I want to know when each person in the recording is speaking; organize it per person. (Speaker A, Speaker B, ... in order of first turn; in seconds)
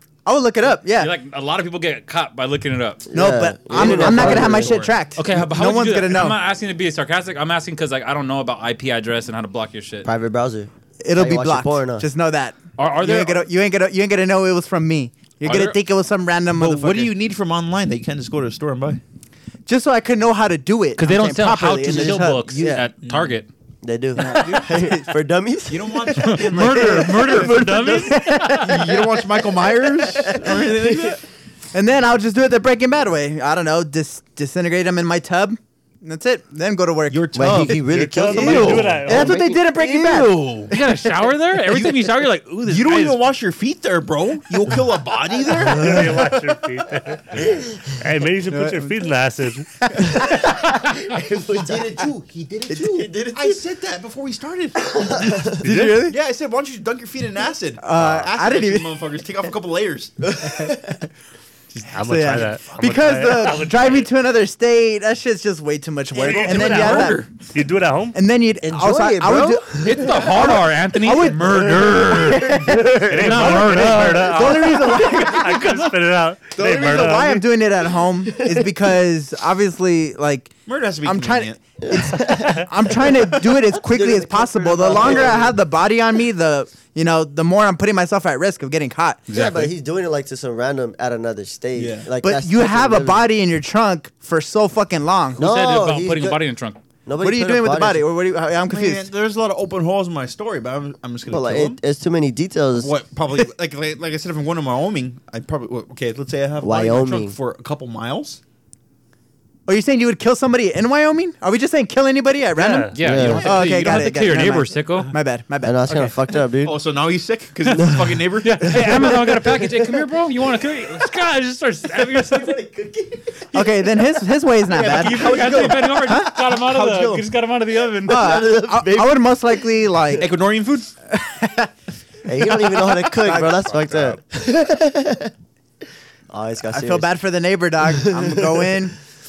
Speaker A: 0.3-1.1, 3.1-6.4, 11.0-17.1, 19.7-22.8, 24.2-25.2, 28.2-28.9, 31.7-37.8, 38.4-40.4, 48.5-49.0, 49.8-50.4, 55.6-56.2, 57.8-58.9, 61.7-67.2, 68.1-75.8, 76.8-89.2, 92.2-95.4, 97.2-99.1, 109.7-116.2, 123.5-125.4, 126.1-126.3, 128.1-130.3, 131.1-131.7, 132.8-134.2, 136.7-139.0
Speaker B: 1.0-3.1, 5.2-10.1, 12.8-13.5, 15.4-15.8, 21.0-23.5, 26.2-28.8, 40.7-43.2, 69.8-74.5, 89.3-89.7, 95.4-96.8, 112.9-115.1, 118.4-122.7, 123.5-123.9, 124.8-128.4
Speaker C: 3.1-4.8, 10.1-12.1, 21.9-22.9, 23.8-29.0, 30.0-31.1, 37.4-40.4, 50.0-52.1, 52.7-53.6, 54.8-55.6, 60.3-61.1, 68.6-70.6, 71.9-73.6, 78.3-78.7, 81.8-85.6, 89.3-93.3, 95.4-96.4, 97.1-98.1, 101.3-103.0, 106.6-107.4, 113.0-113.6, 115.6-116.8, 118.8-119.4, 122.0-123.4, 128.1-129.4, 132.2-135.3, 136.3-137.1, 137.9-138.8
Speaker D: 3.7-4.9, 16.6-19.0, 23.0-23.3, 25.7-31.2, 37.1-39.2, 40.1-40.8, 41.7-42.0, 42.6-46.3, 51.6-60.2, 62.6-63.0, 66.2-67.3, 76.6-77.3, 80.7-81.6, 91.8-92.1, 98.7-101.8, 102.7-108.4, 113.2-114.0, 116.6-118.8, 124.7-127.3, 130.2-130.9
Speaker E: 37.8-39.4, 45.6-49.7, 55.6-56.0, 61.9-64.1, 66.2-68.2, 72.9-77.4, 112.6-112.9